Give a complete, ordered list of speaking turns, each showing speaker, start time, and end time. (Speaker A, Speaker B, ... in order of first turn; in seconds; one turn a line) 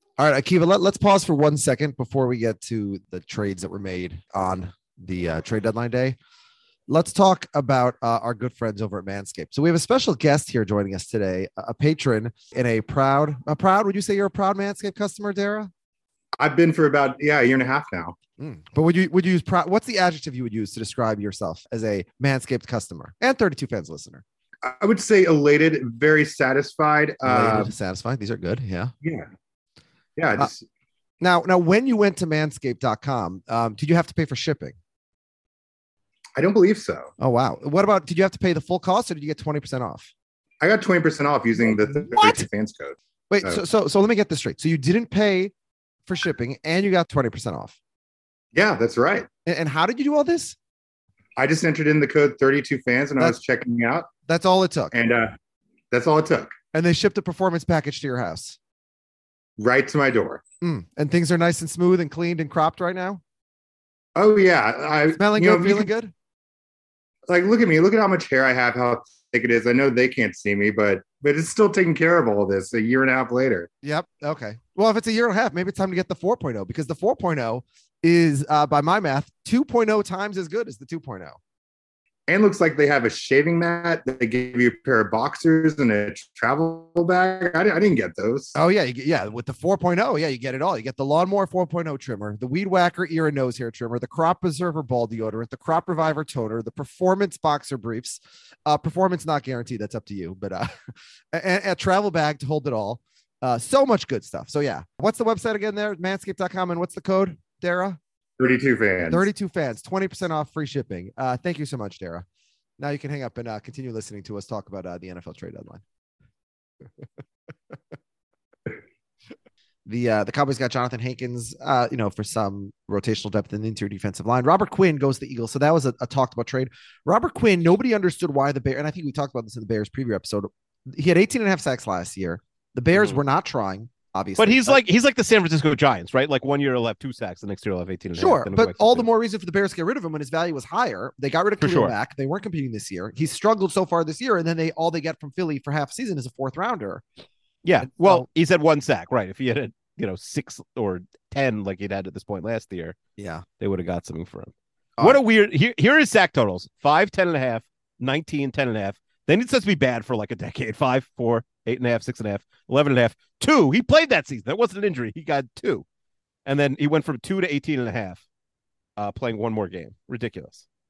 Speaker A: 0.2-6.2
Speaker A: 6.9-15.7
Speaker B: 16.4-18.1
Speaker A: 18.4-24.2
Speaker B: 24.6-27.7
Speaker A: 27.2-28.9
Speaker B: 29.0-29.3
Speaker B: 30.2-30.6
Speaker A: 31.2-34.8
Speaker B: 36.4-37.1
Speaker A: 37.2-40.1
Speaker B: 40.6-43.6
Speaker A: 41.5-42.5
Speaker A: 43.3-45.5
Speaker A: 46.1-47.8
Speaker B: 48.5-49.3
Speaker A: 49.5-50.5
Speaker B: 51.4-54.1
Speaker A: 54.2-54.9
Speaker B: 54.9-55.4
Speaker B: 55.9-56.5
Speaker A: 56.7-58.6
Speaker B: 59.6-60.4
Speaker A: 60.6-63.2
Speaker B: 64.2-65.9
Speaker A: 65.1-66.1
Speaker B: 67.3-73.7
Speaker A: 73.8-81.4
Speaker B: 82.3-88.5
Speaker A: 88.5-108.0
Speaker B: 108.4-109.2
Speaker A: 109.1-112.2
Speaker A: 112.8-115.8
Speaker A: 119.8-134.8
Speaker C: 132.9-133.2
Speaker C: 134.4-139.1
Speaker A: 138.1-147.0
Speaker C: 141.6-141.9
Speaker C: 147.6-153.0
Speaker A: 147.8-148.3
Speaker A: 153.2-153.4
Speaker C: 153.6-165.8
Speaker C: 166.4-168.2
Speaker C: 169.0-170.6